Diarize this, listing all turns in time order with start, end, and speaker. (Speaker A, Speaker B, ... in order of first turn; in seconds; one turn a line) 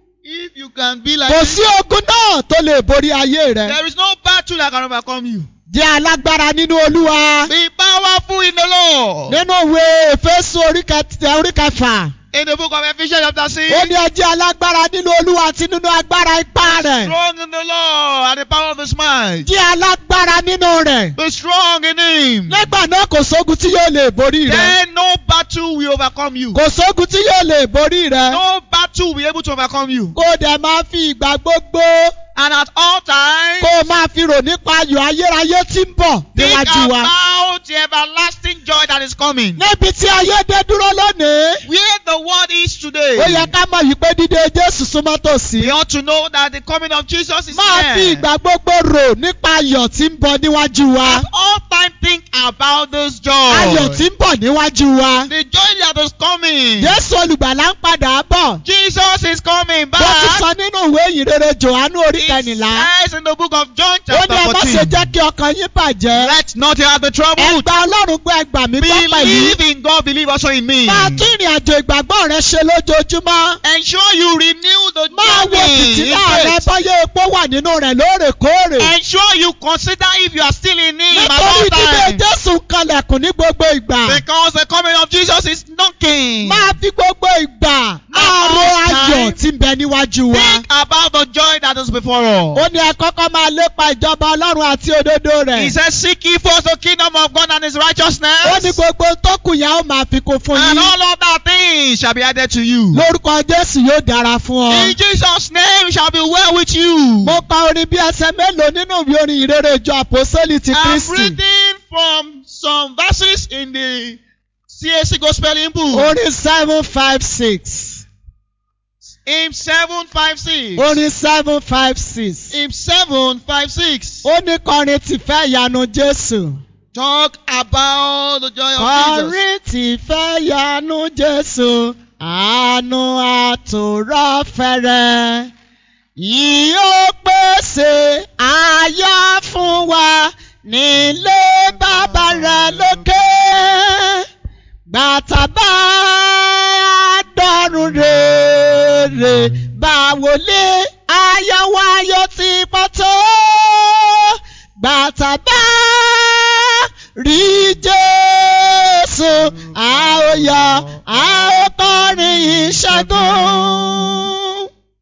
Speaker A: 0.2-1.7
Speaker B: 1.3-3.8
Speaker A: 3.6-5.5
Speaker B: 5.7-7.5
Speaker A: 7.5-9.4
Speaker B: 9.3-12.1
Speaker A: 12.3-13.9
Speaker B: 13.7-17.1
Speaker A: 16.6-19.5
Speaker B: 19.4-21.2
Speaker A: 21.2-22.7
Speaker B: 22.5-24.8
Speaker A: 24.4-26.6
Speaker B: 26.5-28.4
Speaker A: 28.3-30.1
Speaker B: 30.1-32.1
Speaker A: 32.4-33.8
Speaker B: 33.6-37.1
Speaker A: 36.4-39.6
Speaker B: 39.6-41.6
Speaker A: 41.6-43.5
Speaker B: 43.2-45.7
Speaker A: 45.6-48.2
Speaker B: 47.5-51.3
Speaker A: 51.0-54.0
Speaker B: 53.5-55.3
Speaker A: 55.3-57.0
Speaker B: 56.8-58.6
Speaker A: 58.6-60.4
Speaker B: 60.0-62.9
Speaker A: 62.2-65.1
Speaker B: 64.1-66.4
Speaker A: 66.1-67.7
Speaker B: 67.4-69.6
Speaker A: 68.8-71.3
Speaker B: 70.9-73.6
Speaker A: 73.6-76.7
Speaker B: 75.1-78.9
Speaker A: 78.8-82.2
Speaker B: 81.1-84.2
Speaker A: 84.1-86.7
Speaker B: 86.4-90.6
Speaker A: 88.1-89.4
Speaker A: 90.3-92.7
Speaker B: 92.5-95.7
Speaker A: 95.5-98.8
Speaker B: 98.4-100.9
Speaker A: 100.5-103.0
Speaker B: 102.9-105.0
Speaker A: 104.7-107.4
Speaker B: 107.2-111.4
Speaker A: 110.7-116.2
Speaker B: 115.9-118.0
Speaker A: 119.2-121.0
Speaker B: 120.8-122.6
Speaker A: 122.5-124.3
Speaker B: 124.2-126.6
Speaker A: 126.9-129.4
Speaker B: 128.8-135.5
Speaker B: 136.2-144.2
Speaker A: 141.8-143.1
Speaker B: 144.9-164.4
Speaker A: 159.4-161.2
Speaker A: 162.2-164.0